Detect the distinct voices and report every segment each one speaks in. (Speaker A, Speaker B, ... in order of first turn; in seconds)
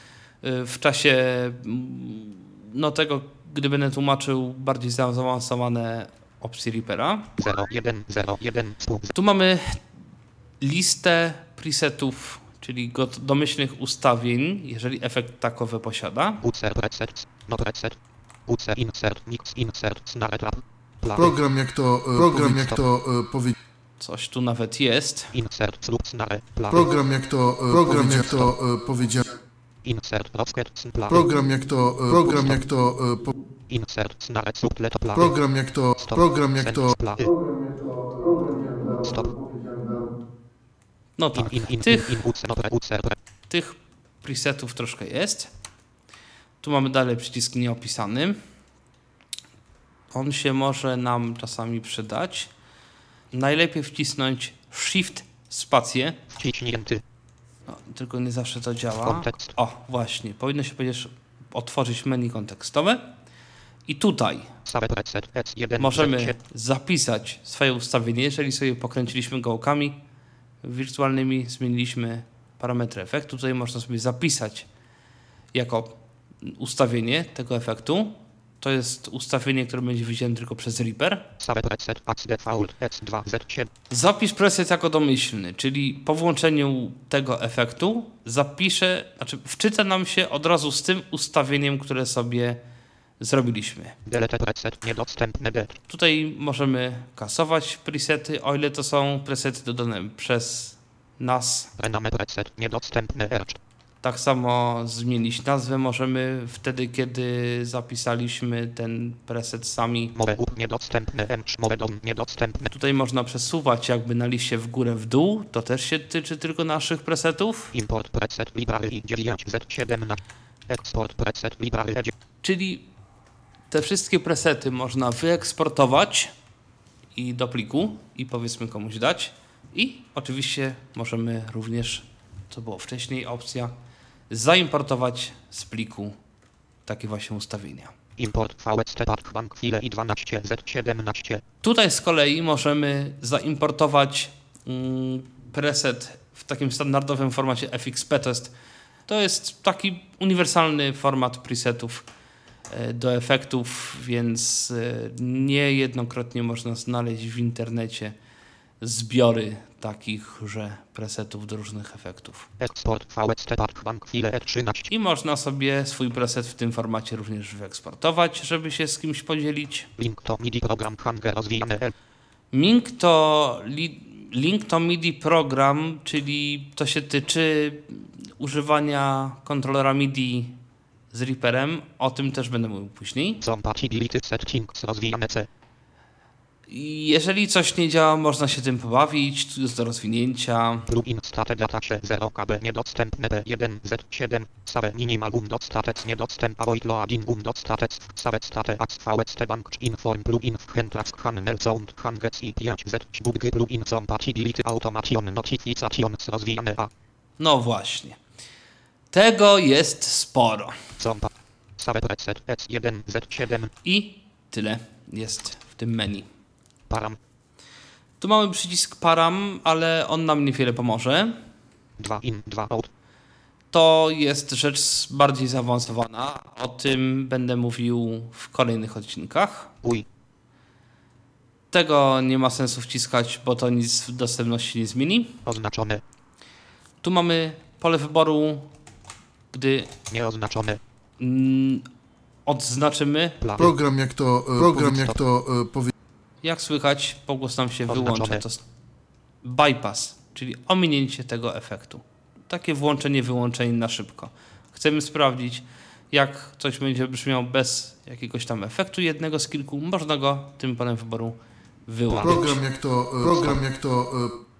Speaker A: 0.4-7.3, 9.1-9.8, 10.6-16.4, 24.0-25.3, 41.2-42.3, 43.5-45.5, 46.6-48.4, 50.1-52.5, 53.3-56.2, 57.7-63.1, 63.9-64.5, 65.8-70.0, 70.6-74.7, 75.5-81.3, 83.9-92.6, 93.2-94.0, 95.9-101.7, 104.0-110.1, 112.7-117.7, 122.4-122.8, 123.7-126.3, 127.1-133.7, 134.3-136.2, 136.8-137.9, 141.6-148.5, 149.1-152.1, 152.7-158.1, 158.8-162.5, 164.9-169.9, 172.5-180.6, 181.1-183.4, 186.7-190.9, 207.4-208.2, 209.1-210.9, 213.8-216.3, 218.2-221.4, 223.7-229.7, 231.7-235.4, 237.0-238.7, 239.5-239.9, 241.2-241.9, 242.4-243.5, 246.4-248.6, 249.4-262.6
Speaker B: 7.4-9.1, 16.4-21.2, 25.3-26.8, 27.8-28.4, 29.8-31.2, 33.7-35.3, 36.6-37.2, 41.3-43.2, 56.3-57.0, 59.0-59.5, 64.7-66.3, 81.4-83.7, 94.0-95.8, 101.8-103.6, 110.1-112.7, 117.7-122.1, 138.2-141.4, 162.6-164.9, 170.0-171.9, 183.4-185.5, 190.9-206.9, 211.0-213.7, 216.9-217.2, 222.0-222.9, 235.4-236.0, 240.1-240.8, 243.4-243.7, 244.7-245.1, 247.9-248.4
Speaker C: 21.1-23.5, 26.7-29.3, 31.1-33.3, 35.1-40.1, 243.6-245.9, 262.2-264.4